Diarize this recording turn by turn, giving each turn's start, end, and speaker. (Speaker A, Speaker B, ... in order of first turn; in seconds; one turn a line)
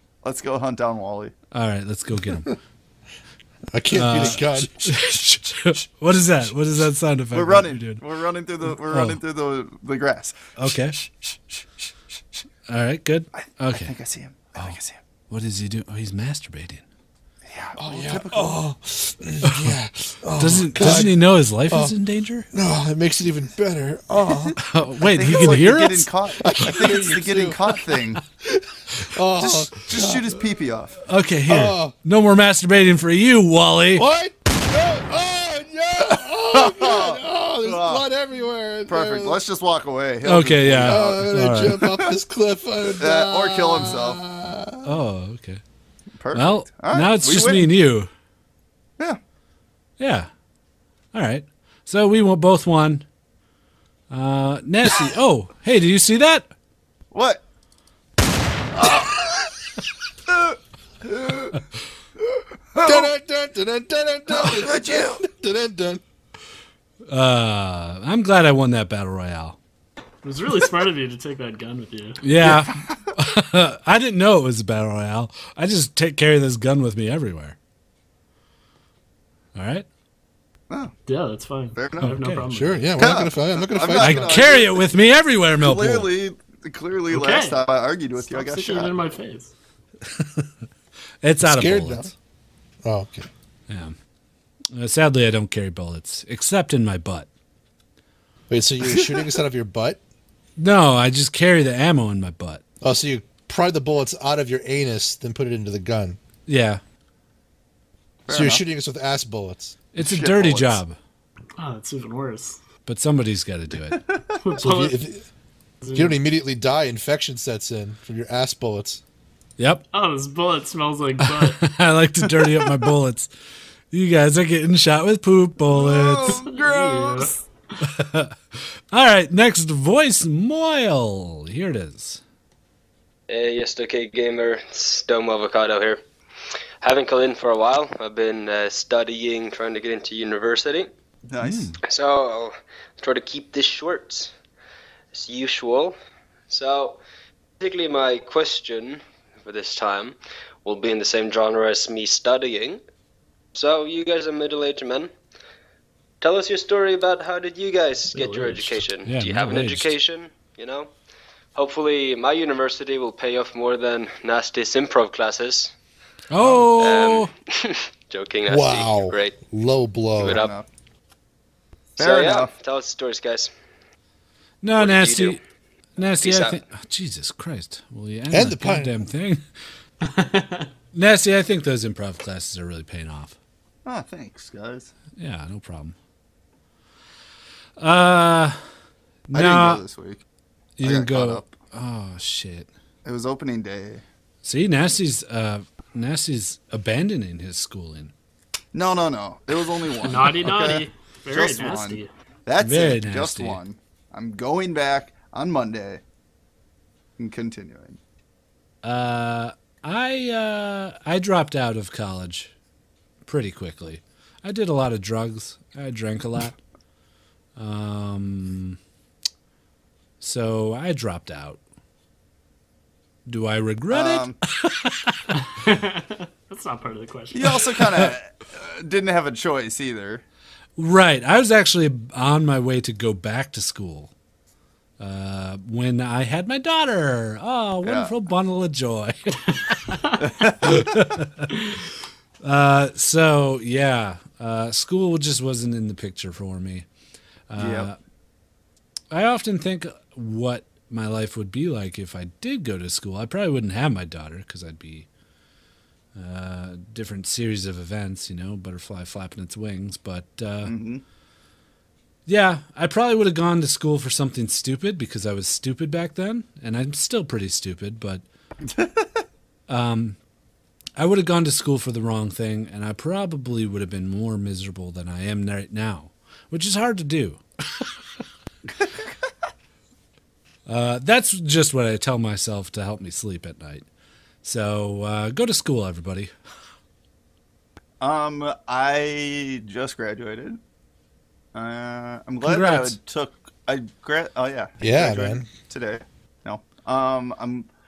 Speaker A: 0.2-1.3
Speaker B: 1.5-2.5
Speaker C: 3.7-4.8
Speaker B: 3.9-8.0
Speaker A: 7.3-11.9
Speaker B: 8.9-9.2
Speaker B: 10.6-11.0
Speaker B: 12.7-13.9
Speaker A: 13.3-15.0
Speaker B: 15.3-16.8
Speaker A: 17.5-18.6
Speaker C: 17.8-21.1
Speaker B: 19.4-19.7
Speaker B: 20.4-22.5
Speaker C: 22.5-24.6
Speaker B: 24.6-26.1
Speaker A: 25.1-28.2
Speaker C: 26.4-27.6
Speaker C: 28.4-30.2
Speaker A: 29.4-30.9
Speaker B: 31.1-34.1
Speaker C: 31.5-31.9
Speaker C: 34.0-39.4
Speaker A: 36.1-38.0
Speaker A: 38.9-42.1
Speaker B: 40.2-41.8
Speaker C: 40.8-44.9
Speaker A: 43.0-44.2
Speaker B: 44.8-45.6
Speaker A: 46.2-47.7
Speaker B: 46.3-48.1
Speaker B: 50.0-50.3
Speaker B: 51.1-53.1
Speaker B: 54.1-56.5
Speaker A: 57.1-57.4
Speaker A: 58.7-59.5
Speaker A: 60.3-61.6
Speaker A: 62.8-63.1
Speaker C: 62.8-66.0
Speaker A: 64.3-65.2
Speaker B: 67.1-69.6
Speaker D: 70.2-72.2
Speaker B: 72.2-77.6
Speaker A: 72.4-73.0
Speaker B: 79.5-79.9
Speaker D: 81.1-83.0
Speaker A: 81.8-82.1
Speaker B: 82.0-82.5
Speaker C: 82.5-84.5
Speaker A: 83.0-84.9
Speaker B: 84.0-86.1
Speaker A: 85.6-88.9
Speaker D: 87.1-87.6
Speaker D: 88.2-89.5
Speaker B: 90.1-90.5
Speaker B: 91.2-92.1
Speaker C: 91.4-92.1
Speaker C: 92.8-93.3
Speaker B: 93.7-94.0
Speaker B: 94.7-97.3
Speaker C: 98.5-100.0
Speaker B: 100.6-102.6
Speaker C: 102.8-106.2
Speaker B: 106.5-106.8
Speaker A: 108.3-108.6
Speaker C: 108.3-109.8
Speaker B: 109.9-111.0
Speaker A: 110.0-110.8
Speaker D: 111.6-112.6
Speaker B: 112.9-114.0
Speaker A: 113.9-114.4
Speaker D: 114.4-115.0
Speaker C: 114.6-115.3
Speaker D: 115.8-116.2
Speaker C: 115.9-119.0
Speaker B: 119.6-119.9
Speaker D: 119.9-121.6
Speaker B: 121.3-123.3
Speaker B: 123.9-126.4
Speaker A: 125.7-127.3
Speaker D: 126.3-127.5
Speaker B: 127.9-132.2
Speaker E: 133.3-136.0
Speaker E: 136.8-140.9
Speaker A: 141.3-141.7
Speaker B: 141.4-141.8
Speaker E: 141.9-144.3
Speaker E: 145.1-146.0
Speaker E: 146.5-147.0
Speaker E: 147.6-152.8
Speaker E: 153.6-155.1
Speaker E: 156.2-160.9
Speaker D: 158.1-158.8
Speaker B: 159.0-159.9
Speaker E: 161.6-165.7
Speaker B: 166.3-167.3
Speaker A: 166.4-166.7
Speaker E: 166.8-169.4
Speaker C: 168.5-170.5
Speaker E: 170.2-170.5
Speaker A: 170.2-170.7
Speaker E: 172.0-173.5
Speaker A: 172.0-172.5
Speaker B: 174.6-175.4
Speaker E: 174.8-175.4
Speaker B: 176.0-179.4
Speaker E: 176.2-176.6
Speaker C: 178.3-178.9
Speaker D: 180.0-180.7
Speaker B: 180.9-183.4
Speaker A: 183.8-184.9
Speaker B: 185.2-185.9
Speaker B: 187.8-188.6
Speaker B: 189.3-189.8
Speaker A: 189.3-190.2
Speaker B: 190.8-192.7
Speaker A: 190.8-191.5
Speaker A: 193.1-194.0
Speaker B: 194.4-198.1
Speaker A: 198.7-206.0
Speaker D: 200.0-202.1
Speaker B: 202.6-203.6
Speaker A: 207.2-208.0
Speaker B: 208.8-212.5
Speaker B: 213.2-216.6
Speaker B: 217.6-218.8
Speaker B: 220.2-221.6
Speaker B: 223.3-225.3
Speaker A: 223.9-224.4
Speaker D: 225.4-227.7
Speaker A: 227.3-230.2
Speaker B: 230.8-234.1
Speaker B: 235.0-240.0
Speaker A: 237.8-238.1
Speaker A: 240.2-240.9
Speaker B: 240.6-241.5
Speaker B: 242.4-246.9
Speaker B: 247.5-248.0
Speaker A: 247.6-247.9
Speaker B: 249.1-255.1
Speaker B: 256.1-260.7
Speaker A: 260.6-261.0
Speaker B: 262.3-268.2
Speaker A: 268.7-269.2
Speaker B: 269.7-270.2
Speaker B: 271.0-277.9
Speaker A: 278.8-279.1
Speaker B: 280.7-283.9
Speaker B: 284.4-286.3
Speaker A: 288.0-290.6
Speaker A: 291.5-297.7
Speaker B: 292.4-293.0
Speaker C: 294.8-295.5